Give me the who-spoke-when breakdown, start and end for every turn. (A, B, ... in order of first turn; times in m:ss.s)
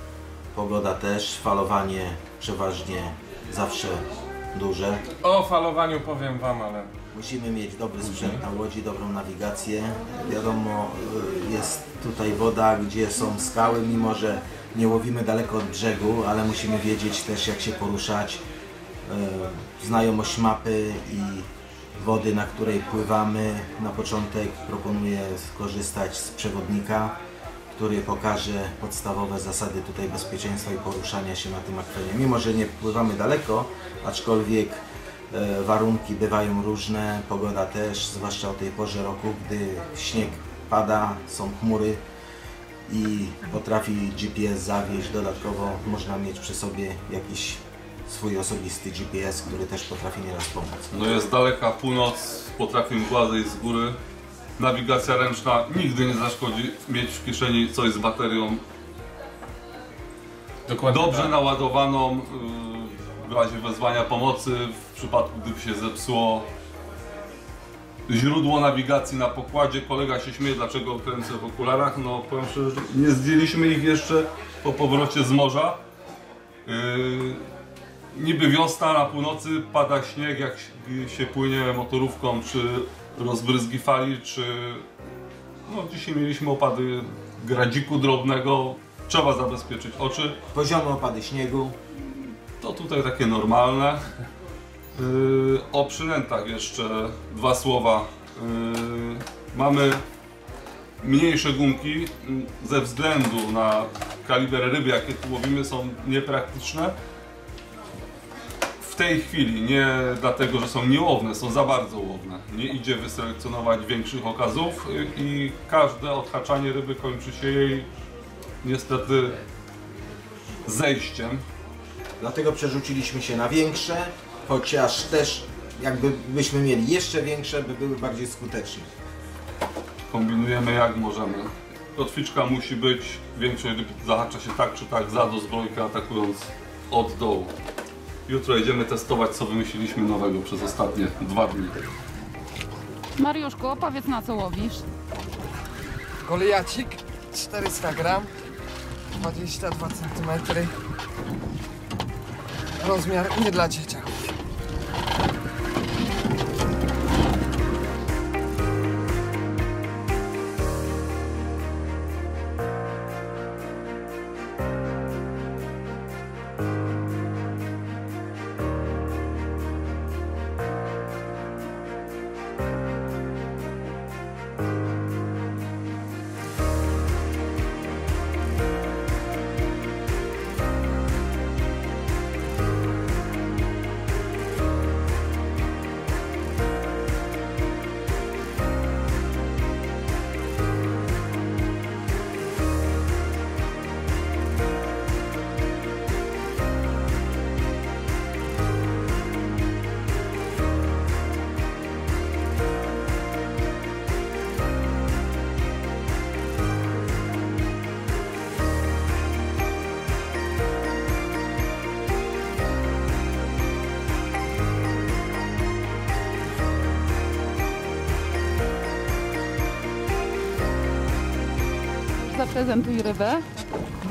0:00.5-0:05.0 A
0:05.2-0:06.9 B
0:07.1-0:18.4 A
0:08.0-0:08.4 B
0:19.1-0:27.2 A
0:27.8-0:42.0 A
0:42.9-0:51.2 A
0:50.9-0:54.0 C
0:54.6-0:58.6 C
1:00.7-1:01.4 B
1:00.9-1:06.5 C
1:08.1-1:15.8 C
1:16.7-1:17.4 C
1:18.1-1:24.9 C
1:25.7-1:30.4 C
1:30.5-1:31.8 A
1:32.0-1:34.1 C
1:35.0-1:40.0 C
1:41.0-1:47.0 C
1:48.8-1:57.9 C
1:58.6-1:59.4 C
2:00.7-2:01.4 C
2:02.2-2:08.9 A
2:10.1-2:17.5 C
2:18.3-2:21.8 C
2:23.2-2:24.9 D
2:26.2-2:28.3 E
2:29.2-2:30.7 E
2:32.8-2:34.2 E
3:42.2-3:43.6 D